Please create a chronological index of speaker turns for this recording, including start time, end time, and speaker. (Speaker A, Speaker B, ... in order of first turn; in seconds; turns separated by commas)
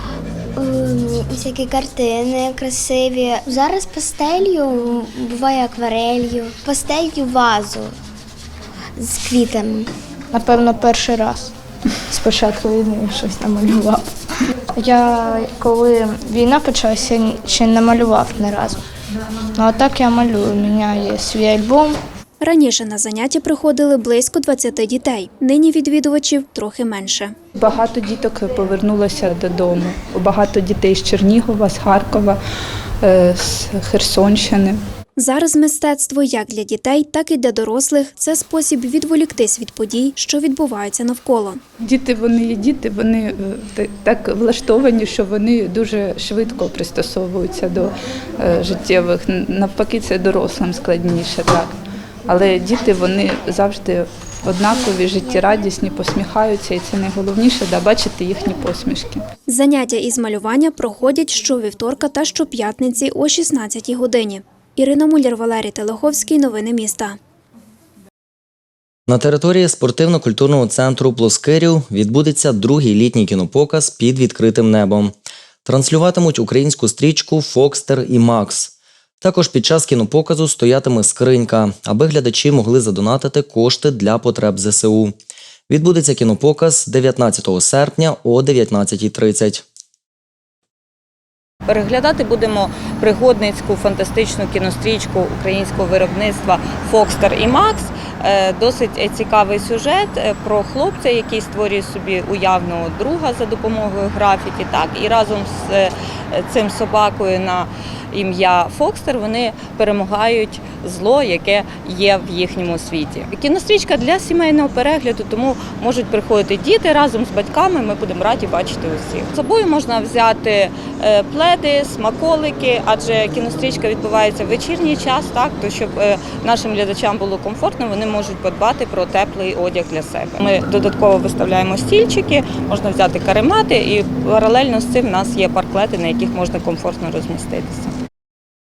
Speaker A: 0.6-1.3, Speaker B: 0.8-7.9, Speaker B: 9.0-9.9, Speaker A: 10.3-11.5, Speaker A: 12.1-14.0, Speaker A: 14.8-18.7, Speaker A: 19.6-21.9, Speaker C: 22.4-27.3, Speaker D: 27.6-32.4, Speaker D: 33.0-34.8, Speaker C: 35.2-41.6, Speaker D: 41.8-51.8, Speaker D: 52.3-59.2, Speaker C: 59.5-67.2, Speaker E: 69.1-85.2, Speaker E: 85.7-89.6, Speaker F: 91.7-137.9